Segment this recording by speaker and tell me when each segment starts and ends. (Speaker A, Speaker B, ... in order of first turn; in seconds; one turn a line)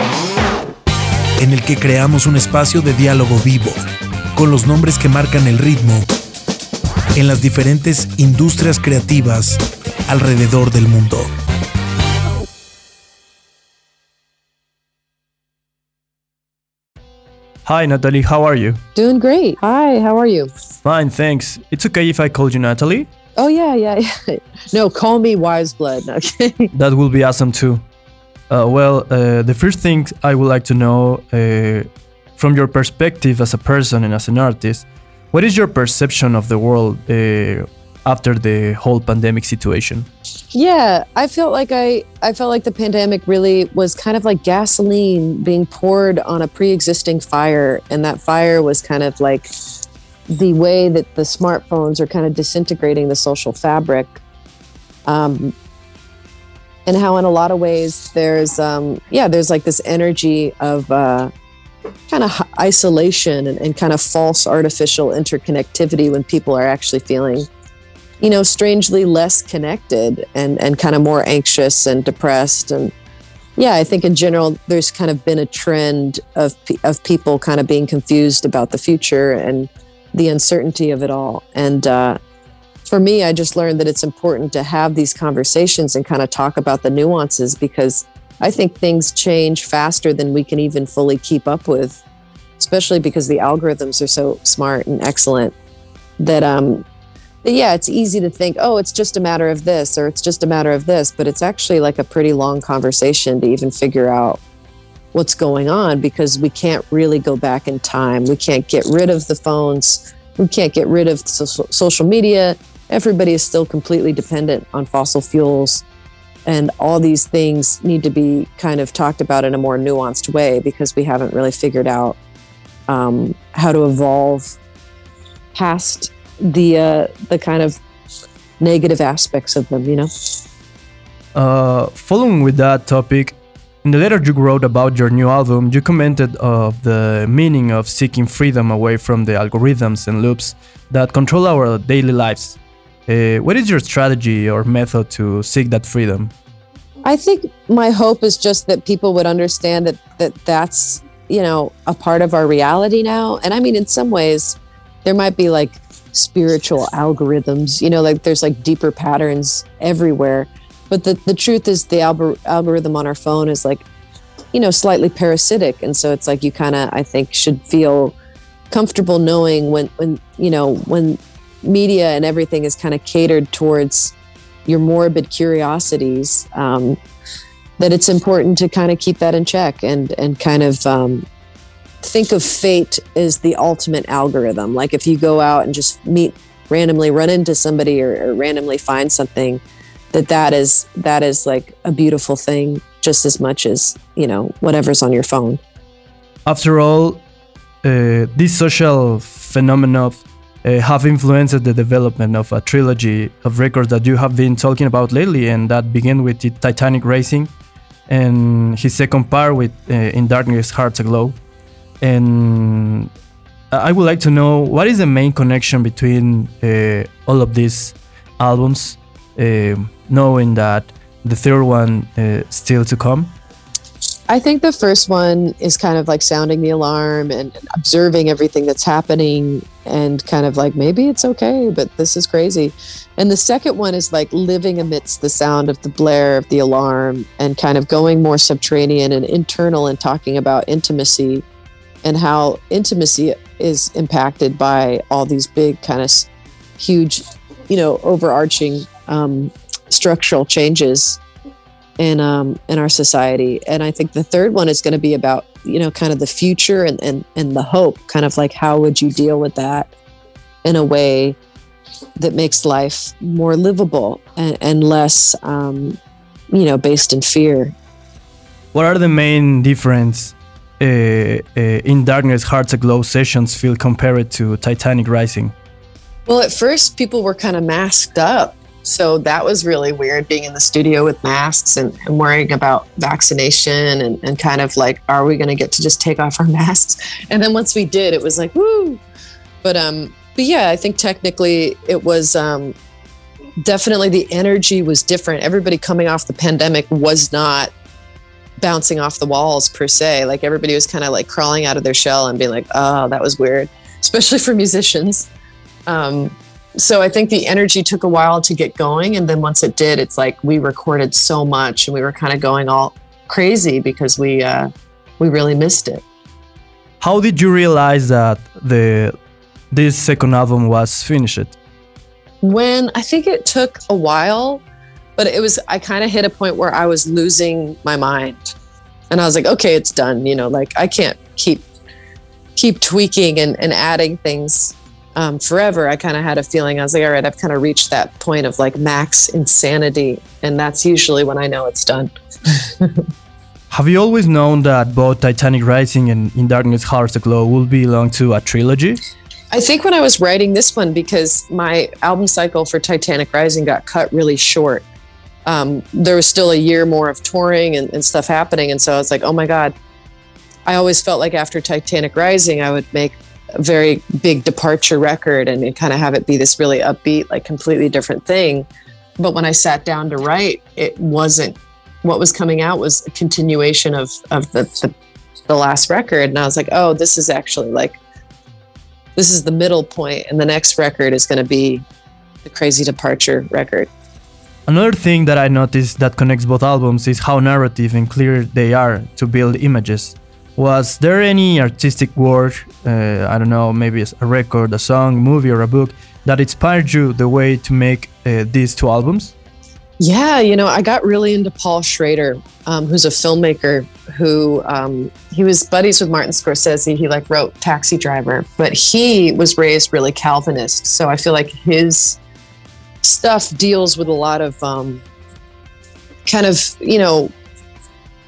Speaker A: 1.4-3.8
Speaker A: 4.3-6.1
Speaker A: 7.2-11.3
Speaker B: 17.6-18.8
Speaker C: 18.9-20.5
Speaker B: 20.8-23.1
Speaker C: 23.4-26.7
Speaker B: 26.7-27.8
Speaker B: 28.5-40.1
Speaker C: 40.5-49.5
Speaker C: 50.3-54.2
Speaker C: 55.0-55.5
Speaker C: 56.9-61.3
Speaker C: 62.1-67.5
Speaker C: 68.2-72.9
Speaker C: 73.6-82.2
Speaker C: 82.8-92.0
Speaker C: 92.6-95.5
Speaker C: 96.2-96.8
Speaker C: 97.4-104.4
Speaker C: 105.1-115.8
Speaker C: 116.5-122.2
Speaker C: 122.9-124.5
Speaker C: 125.5-127.8
Speaker C: 128.6-130.1
Speaker B: 131.3-142.6
Speaker B: 143.1-146.3
Speaker C: 147.0-163.8
Speaker C: 164.5-168.2
Speaker C: 168.7-174.1
Speaker C: 174.7-177.0
Speaker C: 177.8-181.2
Speaker C: 182.0-195.6
Speaker B: 196.4-197.2
Speaker B: 197.8-207.5
Speaker B: 208.1-211.4
Speaker B: 212.0-213.1
Speaker B: 213.7-223.3
Speaker C: 224.3-241.4
Speaker C: 242.0-251.2
Speaker C: 252.0-259.9
Speaker C: 260.6-261.4
Speaker C: 262.2-266.0
Speaker C: 266.5-267.7
Speaker B: 268.7-275.5
Speaker C: 276.3-289.0
Speaker C: 289.6-292.7
Speaker C: 293.6-297.7
Speaker C: 298.6-305.3
Speaker C: 305.9-316.0
Speaker B: 317.0-319.1
Speaker B: 319.7-321.6
Speaker C: 322.4-324.6
Speaker C: 325.2-328.5
Speaker C: 329.1-331.6
Speaker C: 332.6-343.0
Speaker B: 343.7-349.0
Speaker C: 349.5-354.8
Speaker C: 355.4-359.7
Speaker C: 360.6-368.6
Speaker C: 369.2-374.9
Speaker C: 375.5-378.0
Speaker C: 379.1-381.8
Speaker C: 382.4-383.9
Speaker B: 384.7-399.3
Speaker C: 400.0-412.2
Speaker C: 413.0-415.0
Speaker C: 416.2-417.3